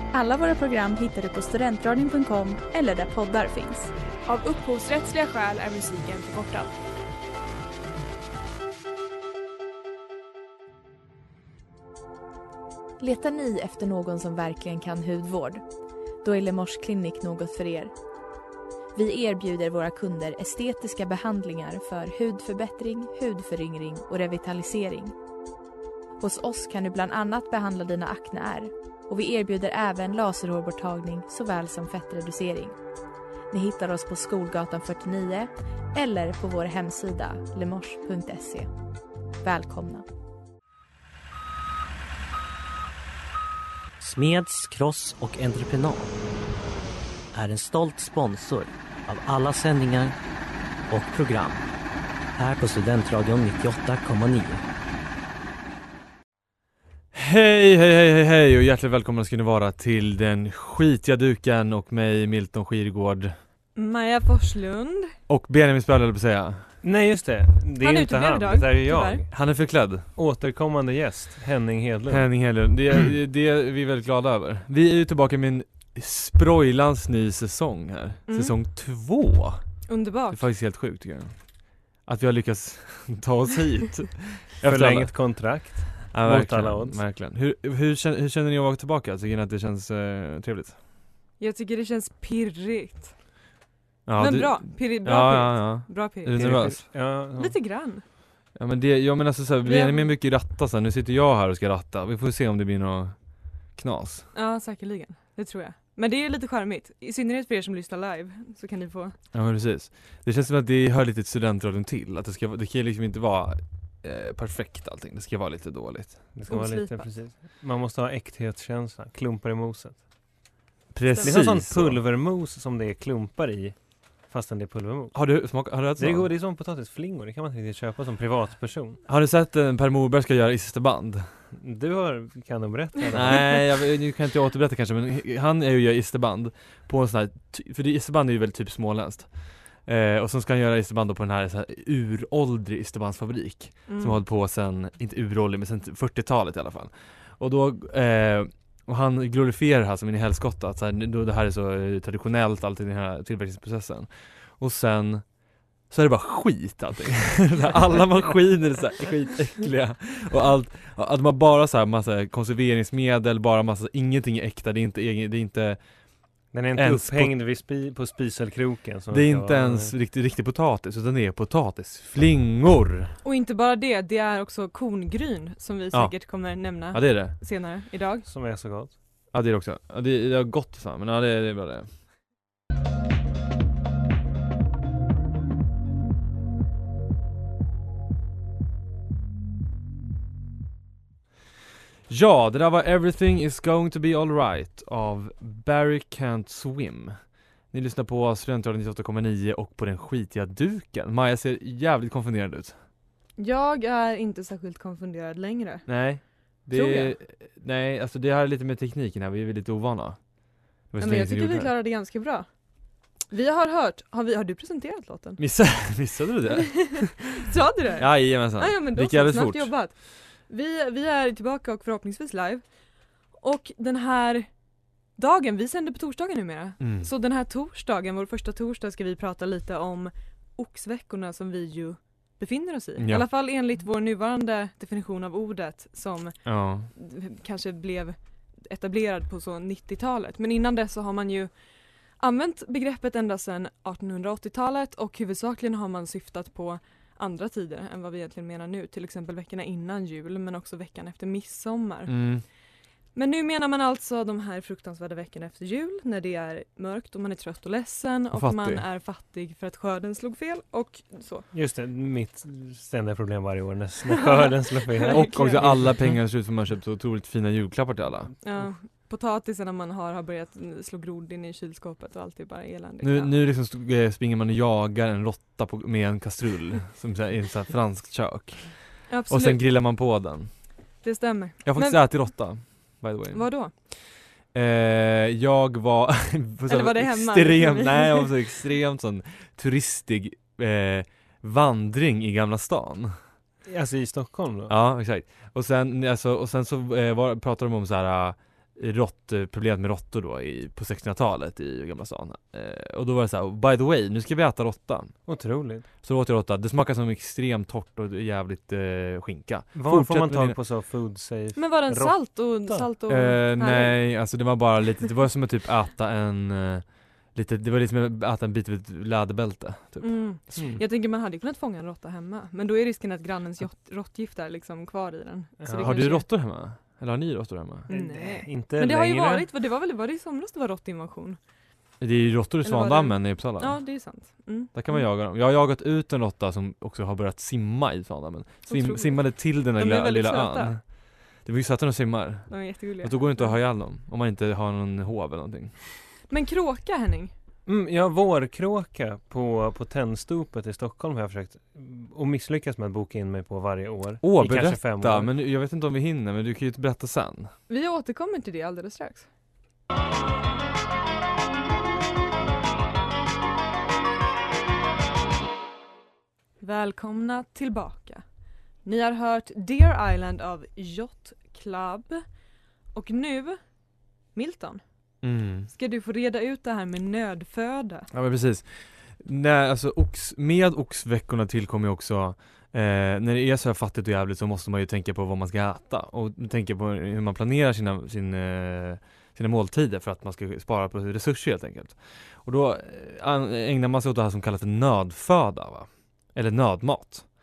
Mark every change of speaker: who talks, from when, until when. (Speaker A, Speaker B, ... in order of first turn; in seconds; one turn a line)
Speaker A: 0.1-3.9
Speaker B: 4.2-6.8
Speaker A: 13.0-15.6
Speaker A: 16.2-17.9
Speaker A: 18.9-25.1
Speaker A: 26.2-32.8
Speaker A: 33.5-38.7
Speaker A: 39.4-40.0
Speaker C: 44.0-46.1
Speaker C: 47.3-50.2
Speaker C: 50.9-51.6
Speaker C: 52.4-54.6
Speaker D: 57.1-63.4
Speaker E: 63.8-65.1
Speaker D: 65.3-66.6
Speaker F: 66.8-69.3
Speaker E: 67.8-69.2
Speaker D: 69.3-70.1
Speaker F: 70.2-72.3
Speaker D: 72.1-79.6
Speaker E: 78.3-78.5
Speaker E: 79.9-80.4
Speaker D: 80.3-81.3
Speaker D: 82.0-85.1
Speaker F: 84.6-87.0
Speaker D: 86.0-90.8
Speaker E: 91.4-93.1
Speaker D: 94.1-96.8
Speaker E: 94.2-96.4
Speaker F: 96.3-97.5
Speaker E: 97.4-98.0
Speaker D: 98.5-103.1
Speaker E: 99.6-100.1
Speaker D: 103.8-104.3
Speaker E: 104.3-109.2
Speaker D: 109.3-116.3
Speaker F: 116.3-120.0
Speaker E: 116.5-117.1
Speaker D: 120.9-122.0
Speaker E: 121.1-121.4
Speaker F: 121.2-123.8
Speaker F: 124.3-125.2
Speaker D: 125.1-126.3
Speaker F: 126.0-129.0
Speaker D: 129.1-131.3
Speaker F: 131.6-133.7
Speaker D: 133.1-155.2
Speaker E: 143.9-144.2
Speaker D: 155.9-165.8
Speaker F: 166.5-169.9
Speaker D: 166.8-167.3
Speaker D: 169.1-173.1
Speaker E: 173.2-178.2
Speaker D: 175.9-177.3
Speaker F: 178.2-178.9
Speaker D: 179.3-181.9
Speaker D: 192.1-197.2
Speaker D: 197.7-202.7
Speaker E: 203.4-205.8
Speaker D: 205.9-210.2
Speaker E: 206.7-207.1
Speaker D: 210.9-211.7
Speaker E: 211.0-212.5
Speaker E: 213.3-215.4
Speaker D: 215.4-217.2
Speaker E: 216.8-219.9
Speaker D: 218.0-219.7
Speaker E: 220.5-222.6
Speaker E: 223.4-224.5
Speaker E: 225.2-236.3
Speaker D: 226.8-227.1
Speaker D: 233.0-233.2
Speaker D: 236.4-236.9
Speaker E: 236.9-241.5
Speaker E: 242.2-252.2
Speaker D: 252.1-252.4
Speaker E: 253.1-261.5
Speaker D: 258.3-258.8
Speaker F: 261.5-266.1
Speaker E: 264.9-265.7
Speaker D: 265.1-268.3
Speaker E: 268.4-273.3
Speaker D: 273.0-278.7
Speaker E: 279.1-279.6
Speaker D: 279.3-280.5
Speaker E: 281.0-282.0
Speaker D: 281.6-283.4
Speaker E: 283.3-283.7
Speaker D: 284.5-293.1
Speaker E: 286.7-288.3
Speaker F: 293.6-294.7
Speaker D: 294.7-305.1
Speaker F: 305.3-305.9
Speaker D: 306.0-310.6
Speaker F: 309.7-312.9
Speaker E: 311.6-314.0
Speaker D: 313.1-320.2
Speaker E: 320.0-326.2
Speaker F: 320.6-320.8
Speaker F: 325.6-326.1
Speaker D: 325.8-327.9
Speaker F: 327.9-329.5
Speaker E: 327.9-331.4
Speaker D: 332.0-333.8
Speaker E: 332.6-335.1
Speaker D: 334.7-340.8
Speaker E: 338.7-340.8
Speaker D: 341.4-345.8
Speaker E: 342.5-343.6
Speaker E: 346.3-347.3
Speaker F: 347.6-355.3
Speaker D: 354.2-357.5
Speaker E: 357.7-359.3
Speaker E: 366.6-368.2
Speaker E: 368.8-372.2
Speaker E: 372.9-373.6
Speaker E: 374.3-374.8
Speaker D: 375.2-375.7
Speaker E: 375.7-378.1
Speaker D: 378.1-397.2